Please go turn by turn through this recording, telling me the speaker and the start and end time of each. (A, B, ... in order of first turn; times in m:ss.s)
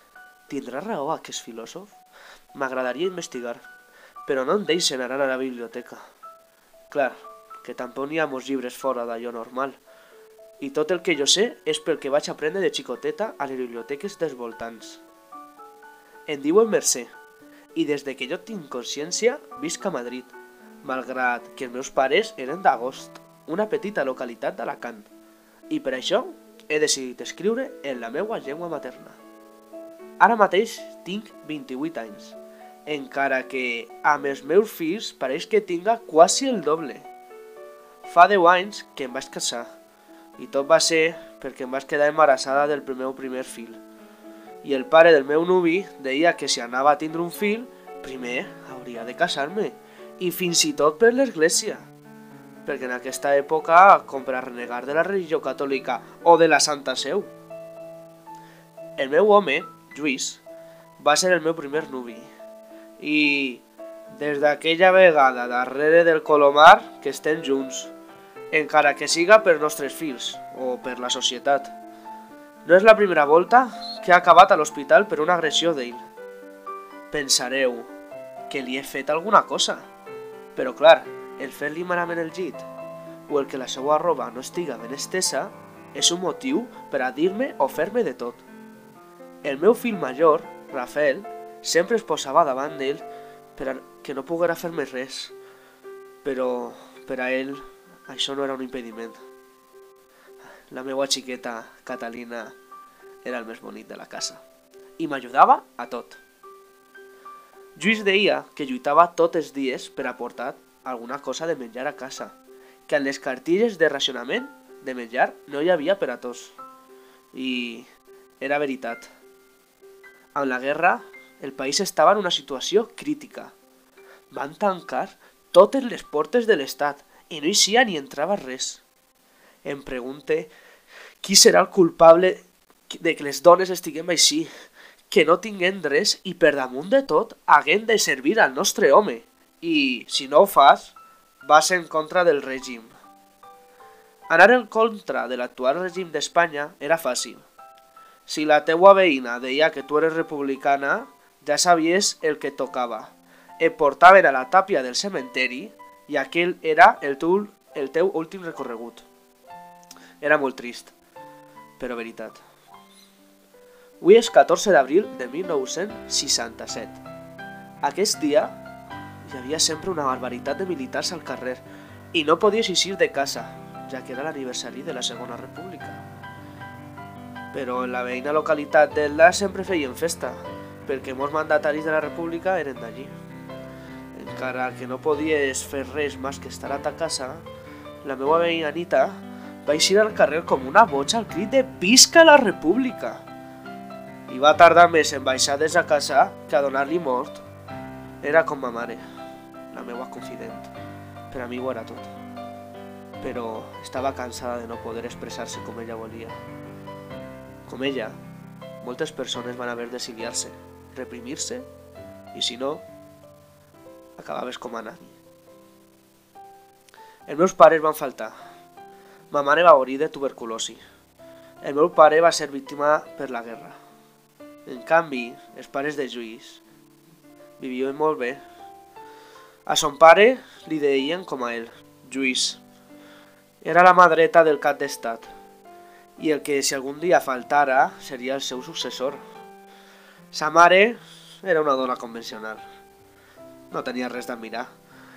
0:00.5-0:02.0 A
0:02.5-0:03.6 A
0:04.2-0:06.0 A
0:06.9-0:09.8 A
0:10.6-0:15.0 A
0:16.3-0:17.1 A
0:17.7-0:25.1 A
0:25.7-0:29.2 A
0:30.2-0:37.1 A
0:38.0-0:39.7 A
0:40.4-0:43.8 A
0:44.6-0:51.9 A
0:52.6-0:57.3 A
0:59.0-1:00.4 A
1:01.0-1:02.3 A
1:03.0-1:07.9 A
1:08.5-1:11.7 A
1:12.6-1:16.0 A
1:17.1-1:17.9 A
1:18.5-1:19.9 A
1:20.5-1:22.6 A
1:23.3-1:28.4 A
1:29.4-1:33.0 A
1:33.6-1:35.4 A
1:36.2-1:39.2 A
1:40.7-1:42.6 A
1:43.2-1:44.4 A
1:45.0-1:46.2 A
1:47.8-1:56.6 A
1:57.3-1:57.9 A
1:58.4-1:59.1 A
2:00.3-2:03.5 A
2:04.3-2:08.8 A
2:09.6-2:10.5 A
2:11.2-2:14.5 A
2:15.1-2:22.9 A
2:24.3-2:27.4 A
2:28.2-2:39.0 A
2:40.2-2:40.9 A
2:41.8-2:42.4 A
2:44.0-2:47.0 A
2:47.8-2:48.6 A
2:49.2-2:56.0 A
2:57.5-3:03.1 A
3:04.1-3:07.4 A
3:08.0-3:13.2 A
3:14.3-3:17.4 A
3:18.2-3:19.0 A
3:19.7-3:20.7 A
3:21.3-3:22.1 A
3:23.2-3:26.4 A
3:27.6-3:28.2 A
3:28.8-3:31.7 A
3:32.3-3:32.8 A
3:34.2-3:35.2 A
3:37.2-3:38.3 A
3:39.3-3:40.8 A
3:41.6-3:43.8 A
3:44.6-3:46.6 A
3:47.6-3:48.4 A
3:49.6-3:52.6 A
3:53.6-3:55.3 A
3:56.2-3:59.2 A
4:00.3-4:02.6 A
4:03.7-4:04.7 A